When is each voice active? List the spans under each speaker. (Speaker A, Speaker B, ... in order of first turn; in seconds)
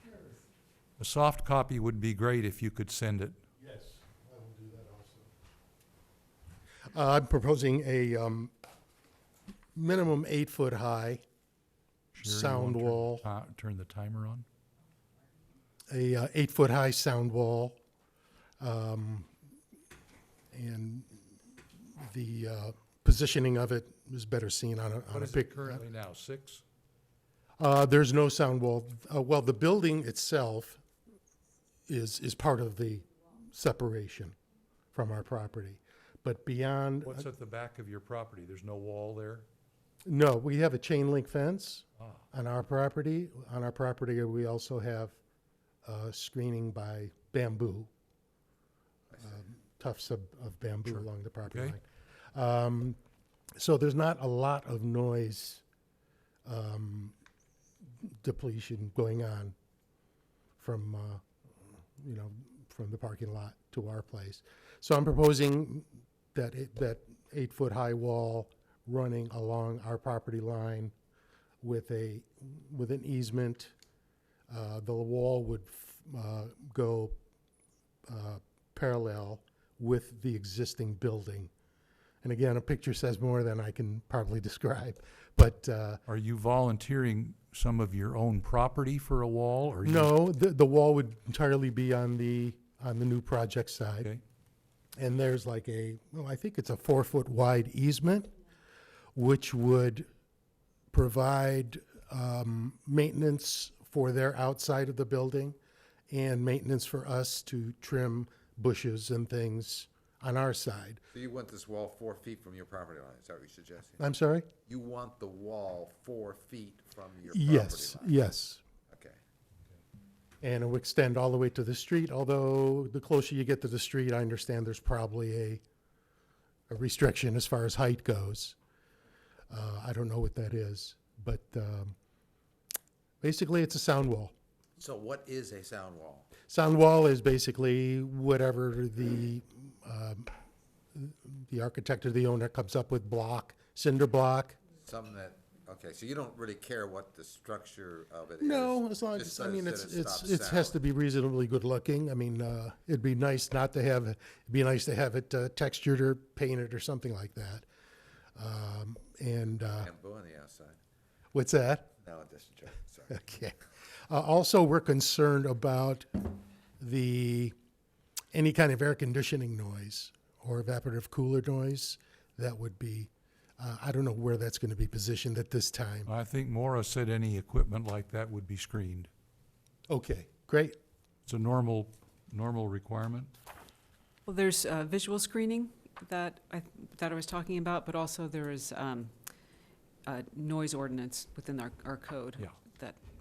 Speaker A: 1.0-3.4, 12.1-14.5, 25.1-26.6, 37.0-39.5, 50.9-51.8, 86.1-90.1, 176.1-179.1, 181.3-183.3
Speaker B: 3.6-5.3, 6.9-8.5, 9.8-11.2, 12.2-13.3, 15.9-17.8, 18.6-19.3, 20.5-21.2, 22.0-25.8, 27.6-30.8, 31.9-34.4, 34.9-37.3, 40.1-45.2, 45.9-47.9, 49.1-53.0, 53.6-55.6, 56.5-57.2, 58.0-59.6, 60.6-70.9, 71.6-73.7, 74.5-77.2, 78.1-81.5, 82.2-86.0, 89.8-94.1, 95.0-98.3, 99.2-100.1, 100.9-105.6, 106.1-111.0, 114.0-114.5, 117.3-118.6, 120.4-125.6, 126.7-128.6, 129.5-132.0, 133.2-134.3, 136.5-140.3, 140.9-144.6, 148.4-157.7, 158.4-159.9, 161.3-161.9, 163.1-163.6, 164.1-167.6, 168.3-176.1, 179.9-180.8
Speaker C: 111.1-114.0, 114.7-118.2, 118.9-119.2, 134.8-136.3, 144.8-150.8, 159.8-160.8, 162.0-163.2
Speaker D: 184.3-189.2, 190.0-193.0